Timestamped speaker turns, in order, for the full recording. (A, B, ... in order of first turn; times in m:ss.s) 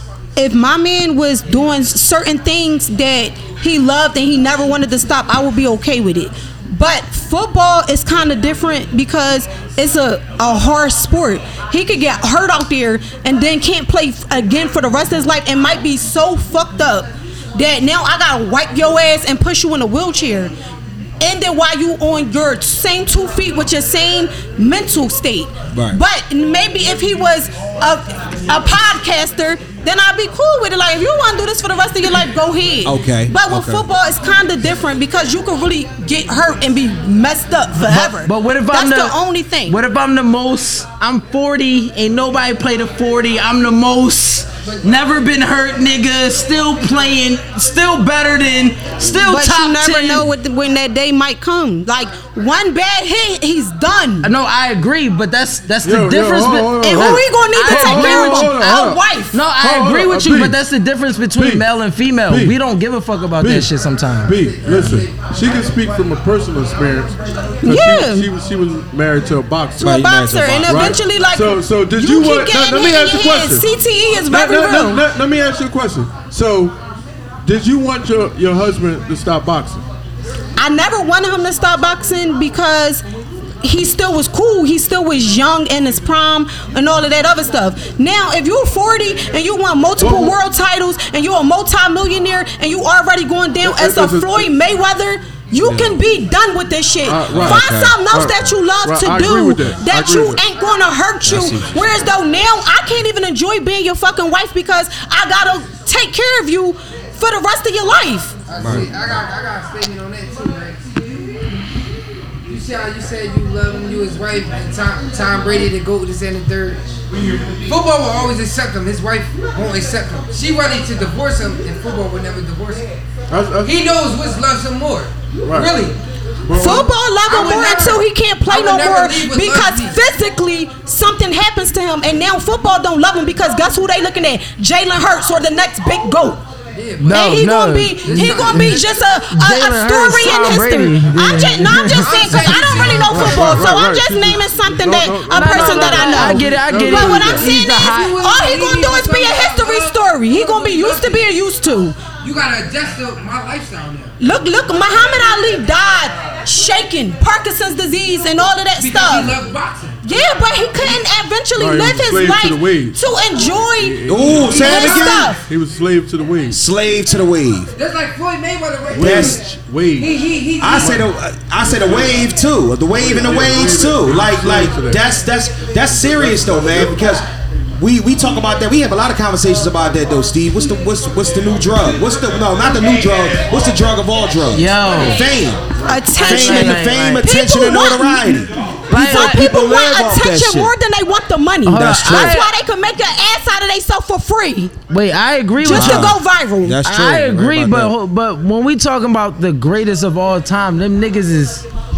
0:00.4-0:20.5 A
0:21.2-0:39.8 A
0:25.7-0:26.0 B
0:32.8-0:33.8 B
0:37.9-0:50.3 C
0:49.0-0:54.3 A
0:54.2-0:58.6 C
0:55.8-1:00.6 D
0:56.8-0:59.4 A
0:59.3-1:04.3 C
1:01.4-1:01.6 D
1:02.3-1:02.6 D
1:03.4-1:03.7 D
1:04.2-1:10.0 D
1:04.3-1:05.7 E
1:04.7-1:05.0 B
1:07.6-1:08.3 A
1:09.8-1:11.0 B
1:09.8-1:15.0 A
1:10.6-1:13.6 D
1:14.2-1:16.8 D
1:17.4-1:19.8 D
1:20.6-1:23.0 A
1:23.6-1:48.4 A
1:30.0-1:30.3 D
1:33.6-1:34.5 D
1:35.6-1:36.0 B
1:37.0-1:40.4 D
1:37.3-1:38.2 B
1:41.2-1:42.0 B
1:48.5-1:51.3 E
1:48.6-1:49.2 B
1:52.5-1:56.9 E
1:57.6-2:02.9 E
2:03.3-2:03.7 D
2:03.6-2:06.0 E
2:05.4-2:05.7 D
2:06.4-2:06.9 D
2:06.5-2:16.4 A
2:06.6-2:10.0 E
2:16.7-2:17.2 E
2:17.0-2:22.8 C
2:17.0-2:32.0 A
2:18.0-2:19.0 E
2:21.7-2:23.7 E
2:23.0-2:27.4 D
2:25.3-2:28.2 C
2:26.7-2:31.3 E
2:32.2-2:34.1 E
2:34.2-2:39.4 A
2:38.8-2:40.2 E
2:40.0-2:45.4 A
2:41.5-2:43.0 D
2:43.7-2:46.6 D
2:44.1-2:45.3 B
2:44.4-2:45.1 E
2:46.5-2:47.7 B
2:47.7-2:49.4 E
2:48.9-2:51.1 D
2:49.0-2:49.4 B
2:50.0-2:51.0 E
2:50.6-2:57.2 B
2:51.6-2:52.2 D
2:52.9-2:55.0 D
2:55.9-2:57.0 D
2:57.8-3:05.6 B
3:04.5-3:05.2 C
3:05.8-3:14.8 A
3:06.1-3:07.3 C
3:06.1-3:10.7 B
3:08.9-3:09.6 C
3:11.6-3:12.5 C
3:11.7-3:12.4 B
3:14.9-3:16.2 C
3:15.6-3:16.8 A
3:15.6-3:17.9 B
3:16.8-3:21.6 C